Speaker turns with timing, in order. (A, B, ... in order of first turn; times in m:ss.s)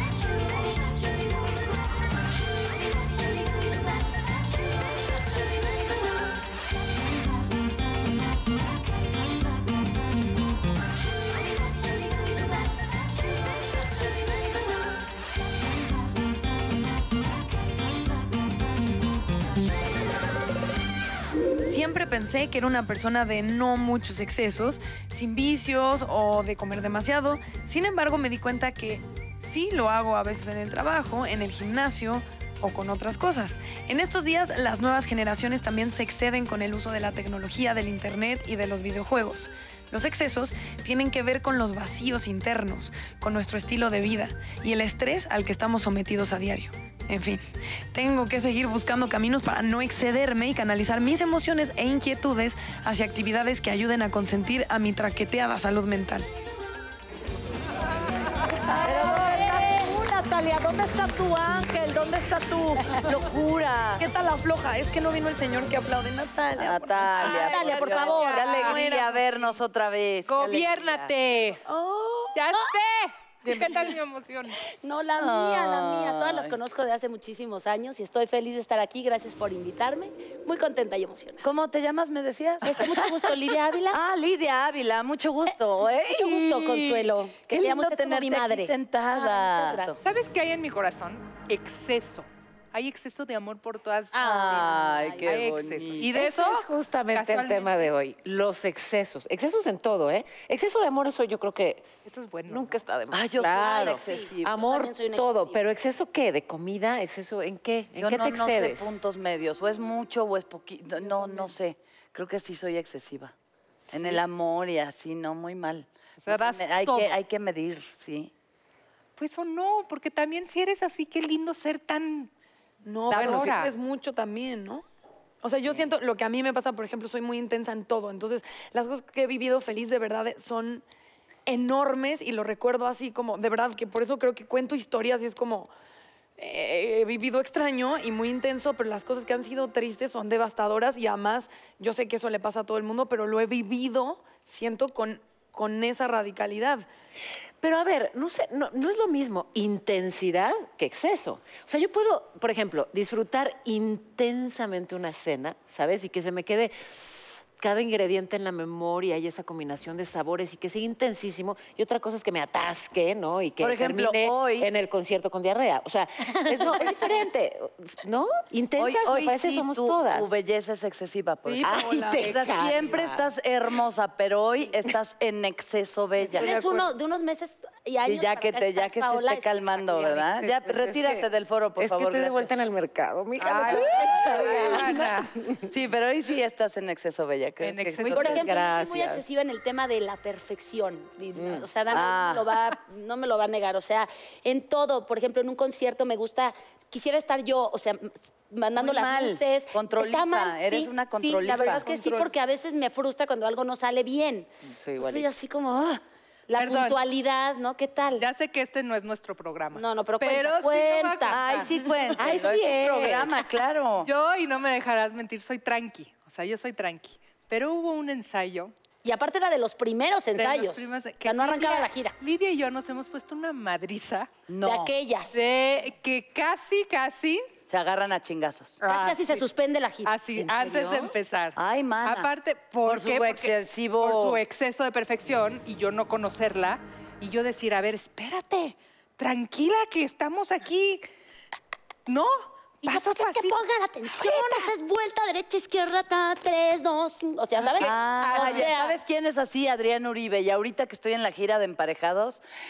0:21.7-0:47.4 A
0:47.9-0:56.3 A
0:58.6-1:04.0 B
0:59.0-0:59.9 C
1:04.0-1:07.8 A
1:06.6-1:11.1 B
1:07.2-1:08.8 D
1:07.2-1:08.8 C
1:08.6-1:09.4 A
1:10.3-1:11.6 D
1:11.7-1:12.3 A
1:12.3-1:14.6 D
1:14.8-1:21.4 C
1:15.2-1:16.5 B
1:21.4-1:30.0 B
1:22.6-1:24.0 C
1:26.1-1:30.0 C
1:30.0-1:37.8 D
1:34.1-1:35.4 C
1:34.2-1:36.1 B
1:36.1-1:41.9 E
1:42.0-1:42.8 D
1:42.5-1:49.0 E
1:43.1-1:44.6 B
1:43.4-1:45.6 C
1:48.0-1:53.3 B
1:53.9-1:54.2 D
1:53.9-1:58.3 B
1:56.2-1:57.1 D
1:59.2-2:02.3 D
2:02.8-2:04.8 A
2:03.1-2:03.7 D
2:03.1-2:03.5 E
2:05.4-2:10.8 A
2:11.4-2:15.7 A
2:16.4-2:26.9 A
2:27.6-2:50.3 E
2:43.6-2:44.7 B
2:48.8-2:56.5 B
2:51.4-2:52.3 A
2:51.6-2:53.2 E
2:52.2-2:53.1 D
2:56.3-2:56.9 A
2:56.4-3:00.4 C
2:58.0-3:02.5 B
3:00.4-3:01.2 D
3:01.8-3:05.7 E
3:03.4-3:05.4 D
3:03.7-3:03.9 B
3:05.7-3:08.4 B
3:07.6-3:08.5 D
3:07.8-3:09.2 E
3:08.0-3:28.2 C
3:11.4-3:11.6 E
3:11.9-3:12.5 B
3:18.8-3:21.9 B
3:21.9-3:22.3 A
3:24.8-3:25.2 E
3:26.6-3:27.0 D
3:28.2-3:32.4 D
3:29.7-3:31.4 C
3:31.3-3:34.1 B
3:32.1-3:33.4 E
3:34.0-3:38.7 D
3:39.0-3:42.1 C
3:40.3-3:44.3 D
3:44.5-3:44.9 B
3:44.6-3:45.4 C
3:45.3-3:47.4 D
3:47.7-3:49.0 B
3:48.8-3:49.2 D
3:48.8-3:50.2 C
3:50.0-4:01.1 D
3:50.3-3:52.3 B
3:52.8-3:54.4 B
4:02.1-4:04.7 D
4:02.8-4:09.0 C
4:07.8-4:08.7 D
4:07.8-4:12.4 B